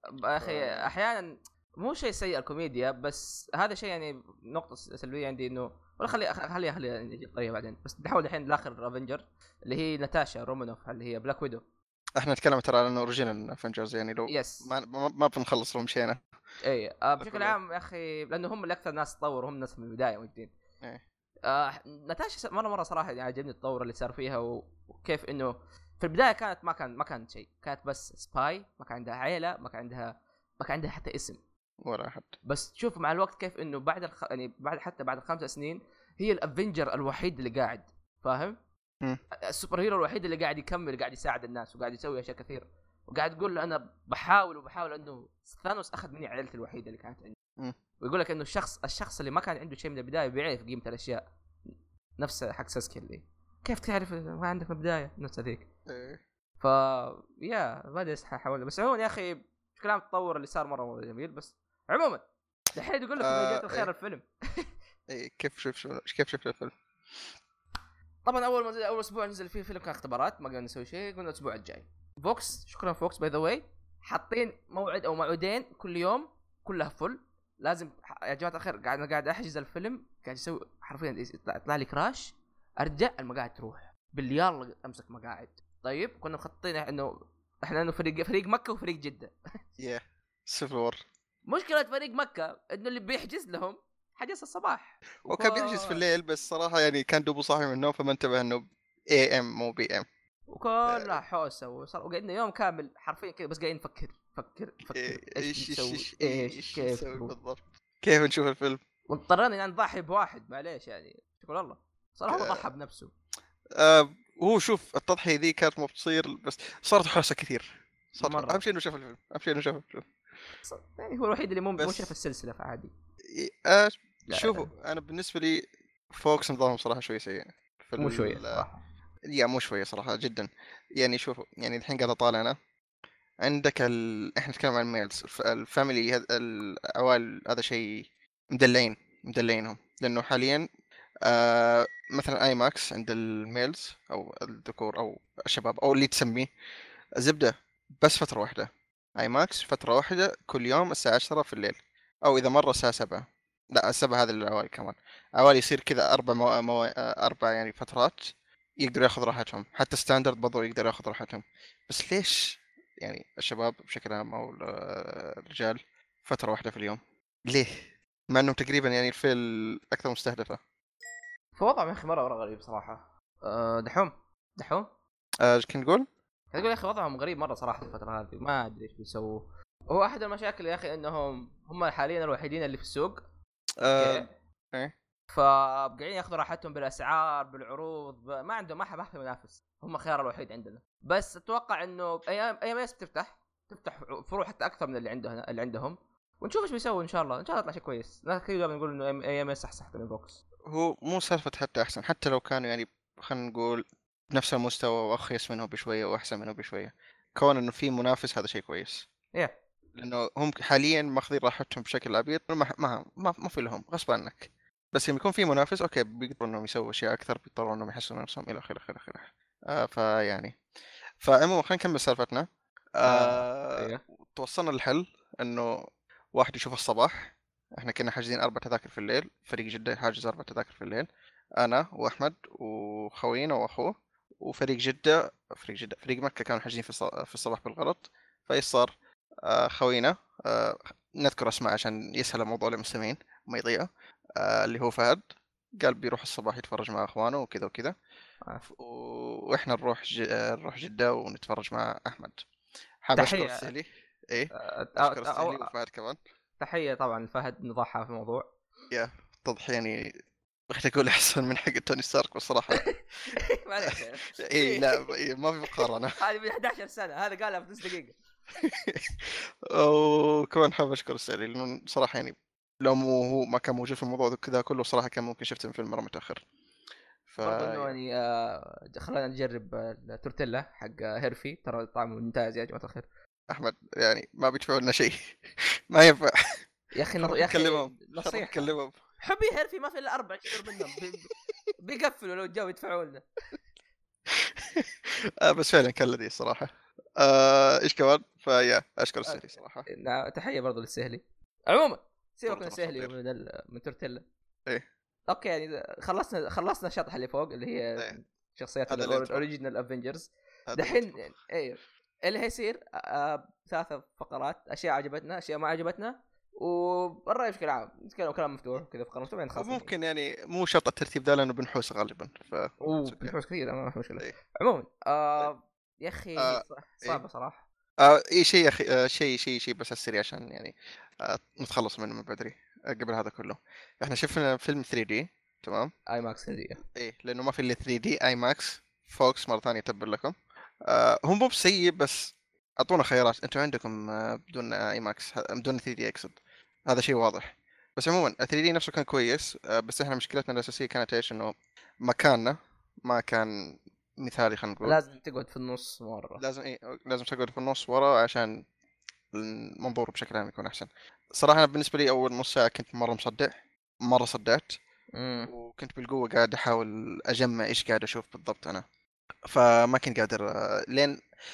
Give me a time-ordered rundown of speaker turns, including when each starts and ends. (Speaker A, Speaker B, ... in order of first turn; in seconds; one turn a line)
Speaker A: 0.1-11.6
Speaker B: 0.4-0.9
Speaker B: 12.2-16.2
Speaker A: 14.3-14.7
Speaker A: 16.6-20.5
Speaker B: 17.2-17.6
Speaker A: 21.5-31.4
Speaker B: 31.8-32.4
Speaker A: 32.5-38.6
Speaker A: 39.5-47.4
Speaker A: 48.0-51.2
Speaker A: 52.2-55.7
Speaker B: 55.9-56.2
Speaker A: 56.6-62.2
Speaker A: 62.7-64.7
Speaker B: 63.2-63.9
Speaker B: 65.1-66.8
Speaker A: 68.2-87.1
Speaker A: 87.7-89.3
Speaker B: 89.8-91.0
Speaker A: 91.5-96.0
Speaker B: 95.2-100.1
Speaker A: 100.5-107.3
Speaker B: 100.9-101.2
Speaker B: 104.9-108.8
Speaker A: 109.1-113.1
Speaker B: 112.3-112.7
Speaker B: 113.8-120.1
Speaker A: 118.2-118.6
Speaker A: 120.7-122.9
Speaker B: 121.8-122.1
Speaker B: 123.3-128.7
Speaker A: 124.3-124.7
Speaker A: 128.0-128.8
Speaker B: 129.3-132.6
Speaker B: 133.4-140.7
Speaker B: 141.3-146.5
Speaker B: 147.2-158.3
Speaker B: 158.8-170.6
Speaker A: 171.6-174.9
Speaker B: 175.4-176.1
Speaker A: 176.5-183.2
Speaker B: 183.8-184.9
Speaker A: 184.0-184.3
Speaker A: 185.3-200.4
Speaker B: 200.7-209.1
Speaker B: 210.0-220.6
Speaker B: 221.2-222.5
Speaker B: 223.0-225.7
Speaker A: 223.1-224.0
Speaker B: 226.3-231.1
Speaker B: 231.6-238.9
Speaker B: 239.4-245.2
Speaker B: 245.8-247.9
Speaker B: 248.6-252.4
Speaker B: 253.0-256.2
Speaker A: 253.2-253.7
Speaker A: 254.6-255.7
Speaker A: 256.6-258.5
Speaker B: 258.9-260.1
Speaker B: 260.7-262.9
Speaker A: 262.7-265.1
Speaker B: 263.9-266.2
Speaker A: 265.7-268.1
Speaker B: 268.6-276.4
Speaker B: 277.3-278.0
Speaker A: 277.4-283.1
Speaker B: 283.5-286.6
Speaker A: 286.9-293.3
Speaker B: 287.2-289.0
Speaker B: 294.3-299.9
Speaker A: 299.2-304.2
Speaker B: 302.5-303.1
Speaker A: 305.3-319.9
Speaker B: 308.9-309.4
Speaker B: 310.7-311.3
Speaker B: 319.6-323.4
Speaker A: 322.8-327.7
Speaker B: 326.4-327.2
Speaker B: 328.0-335.9
Speaker A: 336.1-336.8
Speaker B: 336.9-355.0
Speaker A: 354.8-356.4
Speaker B: 356.4-358.6
Speaker B: 359.3-363.5
Speaker B: 364.1-364.8
Speaker A: 365.1-365.5
Speaker B: 365.5-368.8
Speaker B: 369.5-371.2